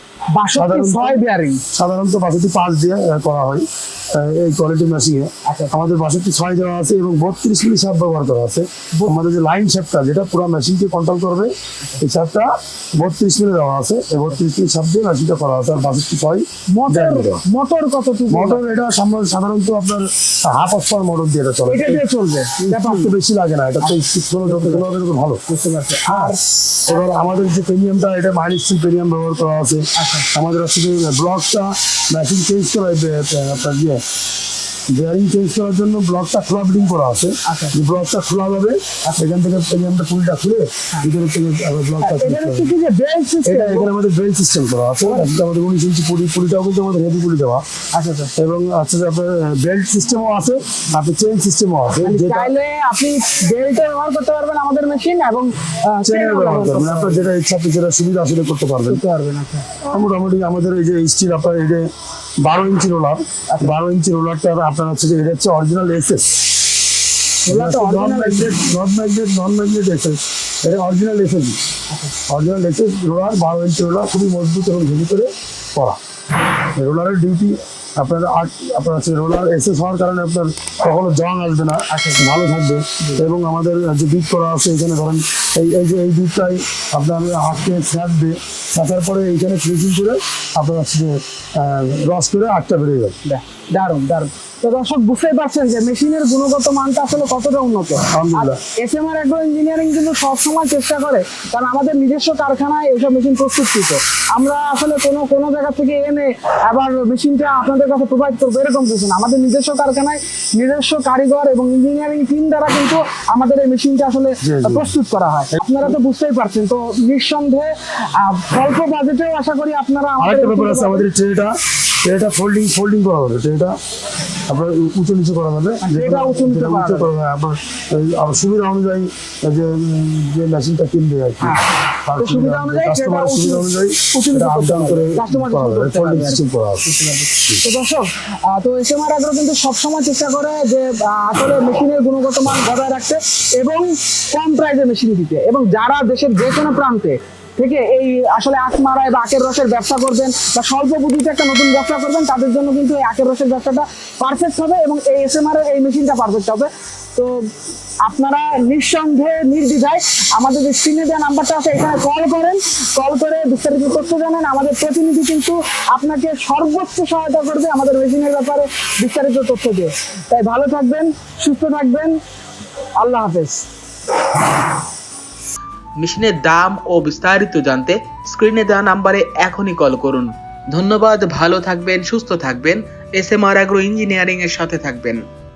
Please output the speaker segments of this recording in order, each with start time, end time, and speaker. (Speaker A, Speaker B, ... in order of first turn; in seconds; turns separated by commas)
Speaker A: 0.3-1.6, Speaker B: 0.5-17.4, Speaker A: 5.4-5.7, Speaker A: 16.7-18.6, Speaker B: 18.3-22.0, Speaker A: 21.7-23.1, Speaker B: 22.6-25.4, Speaker A: 23.8-24.8, Speaker A: 25.5-27.2, Speaker B: 26.1-34.0, Speaker A: 29.9-30.3, Speaker B: 34.9-42.7, Speaker A: 37.4-37.8, Speaker A: 42.0-43.9, Speaker B: 43.4-47.6, Speaker A: 45.0-45.3, Speaker A: 47.9-48.3, Speaker B: 48.4-52.5, Speaker A: 52.0-57.3, Speaker B: 56.0-59.0, Speaker A: 58.9-59.8, Speaker B: 59.8-61.9, Speaker B: 62.4-66.4, Speaker A: 67.5-68.5, Speaker B: 67.5-71.6, Speaker B: 72.2-93.2, Speaker A: 81.9-82.3, Speaker A: 93.2-121.1, Speaker B: 98.1-98.6, Speaker B: 114.4-114.9, Speaker B: 120.2-123.8, Speaker B: 124.5-137.6, Speaker A: 125.8-127.1, Speaker A: 131.4-157.5, Speaker A: 158.0-172.2, Speaker A: 173.0-173.6, Speaker C: 176.0-185.2